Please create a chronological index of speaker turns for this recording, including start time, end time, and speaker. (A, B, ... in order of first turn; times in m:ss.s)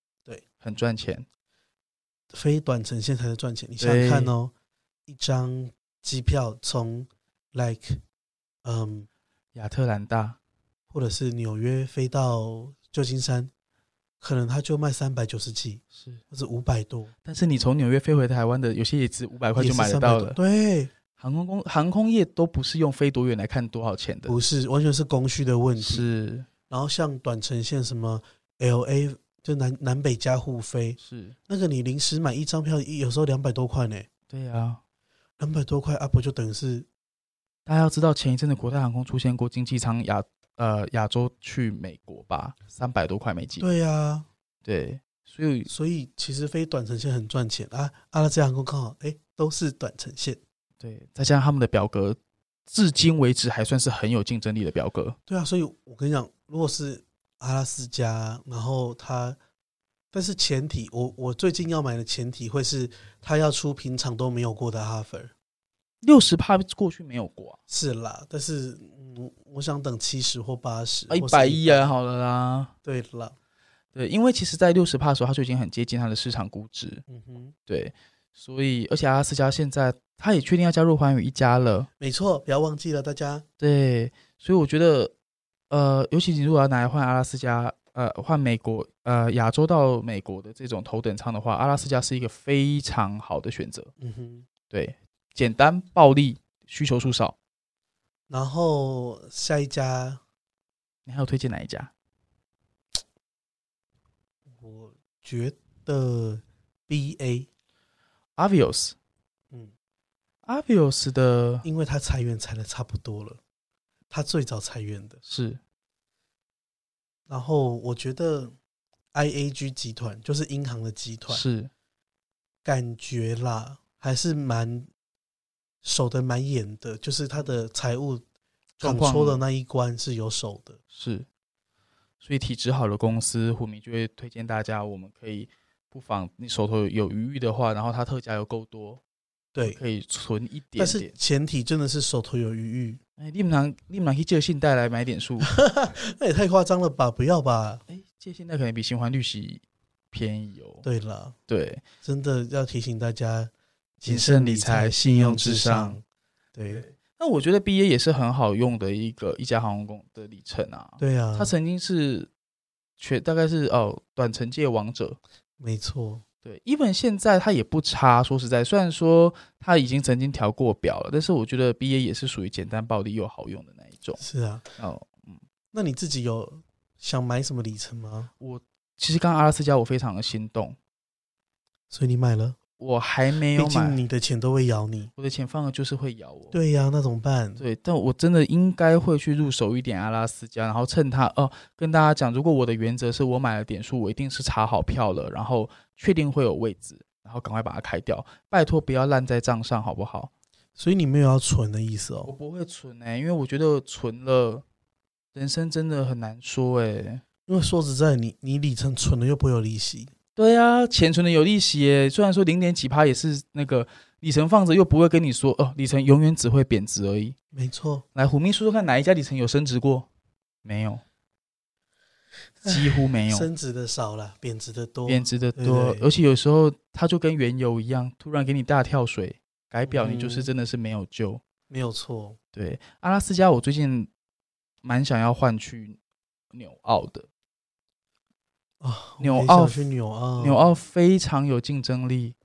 0:00.6-0:01.3 A
0:02.3-0:04.5 B
0:03.8-0:04.3 A
0:05.1-0:08.0 B
0:08.6-0:09.1 B
0:09.6-0:10.4 A
0:10.9-0:13.5 B
0:14.2-0:17.1 B
0:15.9-0:16.2 A
0:17.2-0:20.4 A
0:19.6-0:20.9 B
0:21.2-0:24.4 A
0:24.3-0:26.1 B
0:25.8-0:26.5 A
0:26.7-0:34.1 B
0:31.0-0:31.4 A
0:34.3-0:34.8 A
0:35.4-0:36.9 B
0:37.7-0:43.7 A
0:43.6-0:44.3 B
0:44.6-0:45.7 A
0:45.7-0:50.4 B
0:50.8-0:55.2 A
0:55.3-0:59.4 B
1:00.1-1:05.3 B
1:06.0-1:07.6 A
1:07.7-1:11.9 B
1:11.1-1:12.7 A
1:12.8-1:13.4 B
1:14.0-1:17.0 A
1:17.1-1:17.5 B
1:17.7-1:21.9 A
1:22.0-1:23.4 B
1:23.6-1:25.1 A
1:25.7-1:33.9 A
1:34.0-1:34.5 B
1:34.7-1:37.4 A
1:38.3-1:40.2 B
1:41.1-1:41.9 A
1:44.6-1:47.5 B
1:48.4-1:49.0 A
1:50.5-1:51.7 A
1:51.6-1:53.4 B
1:54.1-1:55.2 B
1:55.2-1:55.6 A
1:57.3-1:58.6 B
1:59.1-2:01.4 B
2:01.3-2:01.7 A
2:02.6-2:04.9 B
2:05.8-2:08.2 B
2:08.8-2:09.4 A
2:08.8-2:10.8 B
2:10.9-2:11.3 A
2:12.2-2:19.0 A
2:19.5-2:19.8 B
2:19.6-2:21.1 A
2:20.8-2:23.0 B
2:23.2-2:25.5 A
2:25.5-2:27.8 B
2:27.9-2:30.8 A
2:30.8-2:31.4 B
2:31.5-2:31.8 A
2:32.0-2:36.0 B
2:34.0-2:36.0 A
2:36.6-2:36.8 B
2:36.7-2:42.3 A
2:41.0-2:41.5 B
2:43.0-2:45.2 A
2:45.6-2:46.2 B
2:46.4-2:54.2 A
2:54.2-2:54.6 B
2:54.8-2:55.4 A
2:55.7-2:58.3 B
2:58.4-3:00.8 A
3:01.9-3:02.6 B
3:02.8-3:04.0 A
3:03.5-3:05.1 B
3:05.2-3:06.6 A
3:06.5-3:07.6 B
3:07.6-3:20.3 A
3:20.8-3:22.3 B
3:22.2-3:24.6 A
3:25.3-3:27.2 A
3:27.5-3:30.1 B
3:30.4-3:37.4 A
3:37.5-3:38.0 B
3:38.2-3:40.1 A
3:40.6-3:41.0 A
3:42.6-3:46.1 B
3:42.6-3:43.5 A
3:45.1-3:51.4 A
3:49.9-3:50.5 B
3:51.7-3:52.4 B
3:52.5-3:54.1 A
3:54.8-3:56.0 A
3:56.5-3:57.3 A
3:58.8-4:00.7 B
3:59.2-3:59.9 A
4:00.4-4:02.4 A